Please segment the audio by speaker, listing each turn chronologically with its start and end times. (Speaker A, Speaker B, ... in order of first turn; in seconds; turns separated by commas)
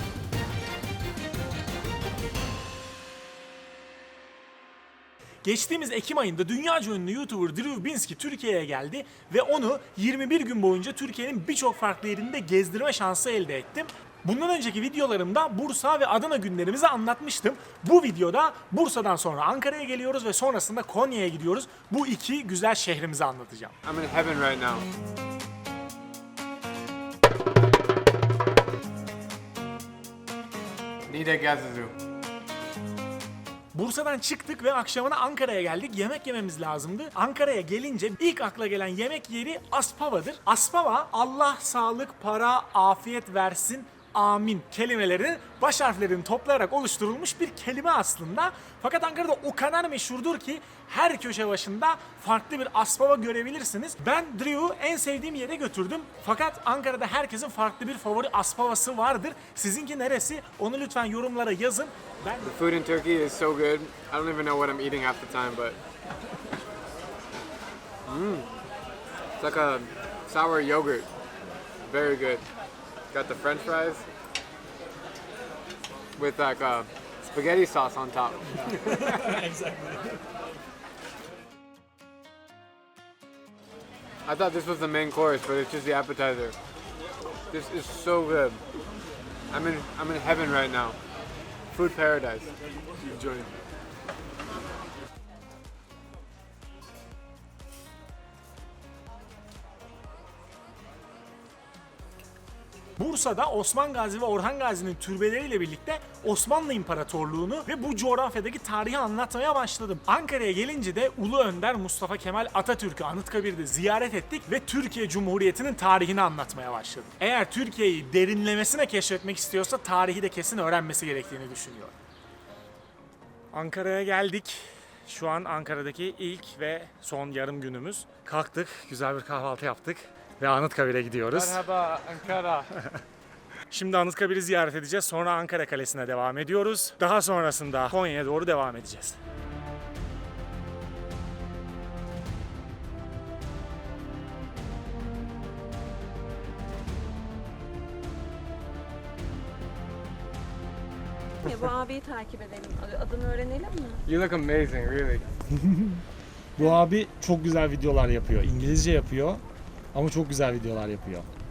Speaker A: 5.4-23.7, Speaker B: 23.8-24.9, Speaker B: 31.1-31.9, Speaker A: 33.7-62.5, Speaker B: 62.4-65.8, Speaker B: 68.0-68.5, Speaker B: 69.4-71.1, Speaker B: 71.8-72.4, Speaker B: 73.1-74.0, Speaker B: 76.2-79.2, Speaker A: 78.6-80.2, Speaker B: 84.2-86.5, Speaker B: 87.5-88.6, Speaker B: 89.5-91.0, Speaker B: 91.7-92.5, Speaker A: 103.0-121.9, Speaker A: 123.5-131.6, Speaker B: 131.3-132.7, Speaker A: 133.7-139.2, Speaker C: 151.4-154.0, Speaker B: 154.1-155.2, Speaker A: 156.6-159.4, Speaker A: 159.9-161.2